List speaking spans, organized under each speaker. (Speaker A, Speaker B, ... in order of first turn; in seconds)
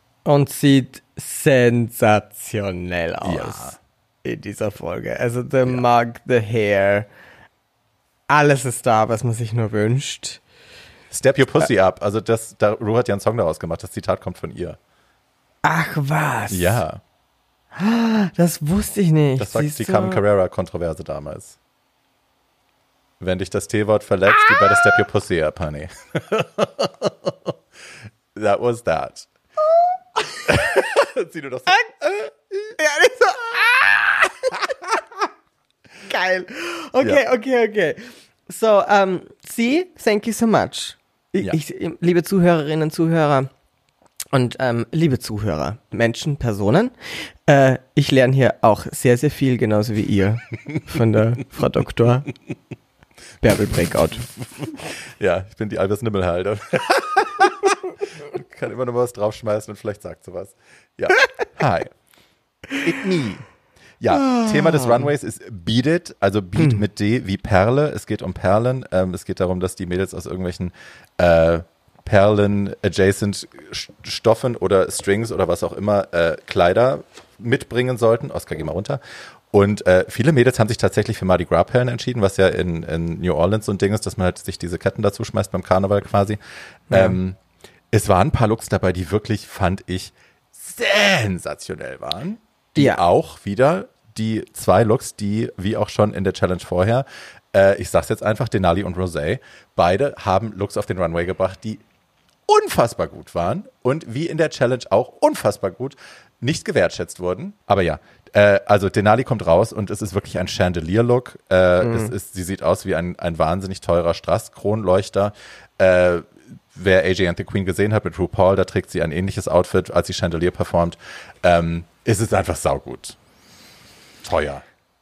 Speaker A: 0.2-7.1, 8.3-10.4, 15.6-16.8, 17.8-20.2, 32.8-34.6, 36.0-43.5, 44.3-52.3, 53.4-54.3, 64.1-65.0, 86.9-87.2, 92.8-93.0, 111.8-112.1
Speaker B: 3.2-3.8, 11.1-14.8, 16.5-17.0, 19.4-21.6, 23.2-27.5, 28.3-29.3, 30.4-32.8, 54.4-61.9, 62.8-63.5, 64.0-79.0, 79.5-87.4, 87.9-101.8, 102.5-123.2, 124.2-124.6